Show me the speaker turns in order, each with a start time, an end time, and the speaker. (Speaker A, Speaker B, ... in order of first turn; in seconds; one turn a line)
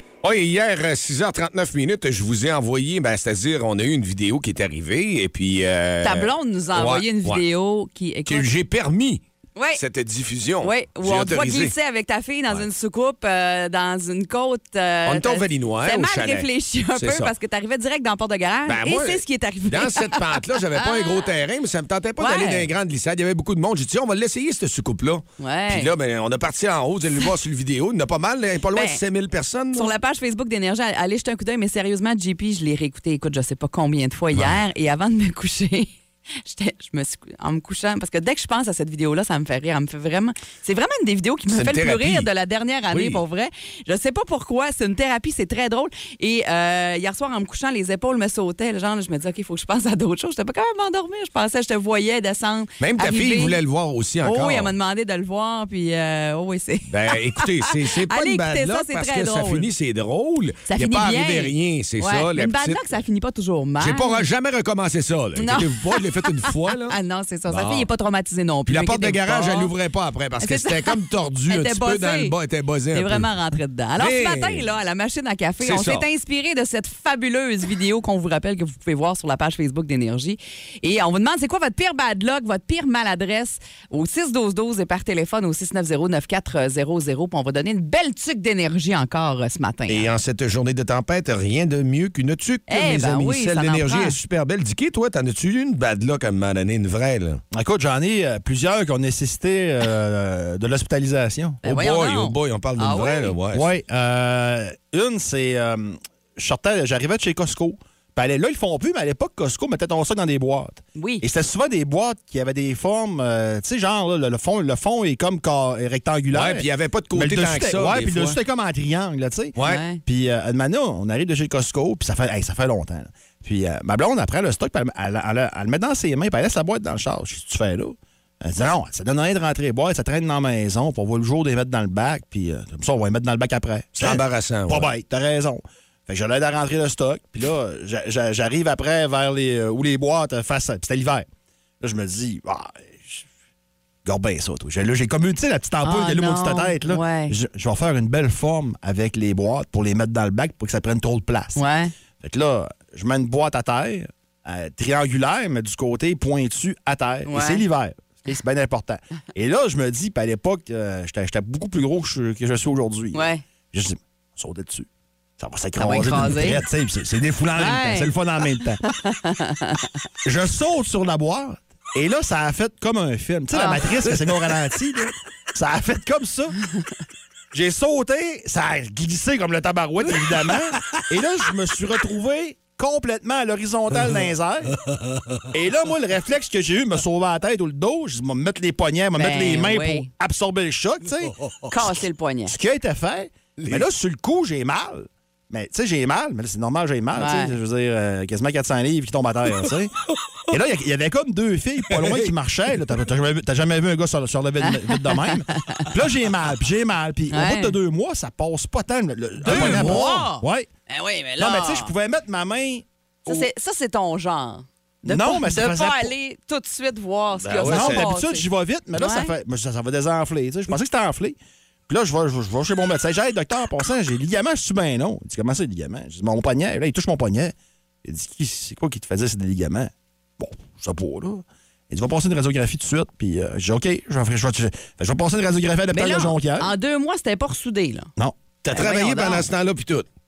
Speaker A: 0.2-7.4
Speaker B: 6.0-8.5
Speaker A: 8.3-9.2
Speaker B: 9.6-9.8
Speaker A: 9.8-11.7
Speaker B: 10.6-20.2
Speaker A: 15.1-17.3
Speaker A: 18.7-29.9
Speaker B: 20.8-21.3
Speaker B: 22.2-22.7
Speaker B: 25.4-25.9
Speaker B: 28.7-29.0
Speaker B: 29.7-53.6
Speaker A: 34.4-34.6
Speaker A: 41.5-42.3
Speaker A: 42.9-43.2
Speaker A: 52.8-54.7
Speaker B: 54.2-59.7
Speaker A: 56.9-63.0
Speaker B: 60.7-64.3
Speaker A: 63.8-67.0
Speaker B: 65.4-69.7
Speaker A: 67.5-67.9
Speaker A: 68.7-73.3
Speaker B: 70.4-72.3
Speaker B: 72.9-90.1
Speaker A: 74.0-74.7
Speaker A: 75.6-76.1
Speaker A: 89.9-97.4
Speaker B: 92.7-94.2
Speaker C: 97.5-101.6
Speaker B: 101.6-103.3
Speaker A: 101.7-103.7
Speaker C: 103.5-119.5
Speaker B: 111.0-111.2
Speaker A: 116.3-118.4
Speaker A: 119.6-119.8
Speaker B: 119.6-120.0
Speaker C: 120.1-141.3
Speaker A: 133.9-134.9
Speaker C: 141.8-143.3
Speaker C: 144.1-151.6
Speaker B: 145.8-147.4
Speaker B: 151.6-151.9
Speaker C: 152.2-168.8
Speaker B: 157.3-157.6
Speaker B: 163.1-163.4
Speaker B: 165.8-166.6
Speaker B: 167.6-168.1
Speaker B: 168.8-169.9
Speaker C: 170.2-176.6
Speaker B: 173.5-174.1
Speaker C: 177.5-184.7
Speaker C: 185.5-191.4
Speaker B: 189.2-190.1
Speaker A: 191.3-191.7
Speaker B: 191.7-192.6
Speaker C: 192.5-200.0
Speaker A: 193.6-193.9
Speaker B: 197.2-197.6
Speaker C: 200.5-210.7
Speaker A: 201.9-202.3
Speaker B: 204.7-205.9
Speaker B: 207.3-207.8
Speaker B: 209.4-211.9
Speaker A: 209.5-210.1
Speaker C: 211.4-213.5
Speaker B: 213.3-218.5
Speaker C: 215.0-216.1
Speaker A: 217.4-218.1
Speaker C: 217.5-236.7
Speaker B: 219.0-219.3
Speaker B: 235.9-238.1
Speaker A: 238.6-240.1
Speaker B: 238.7-239.5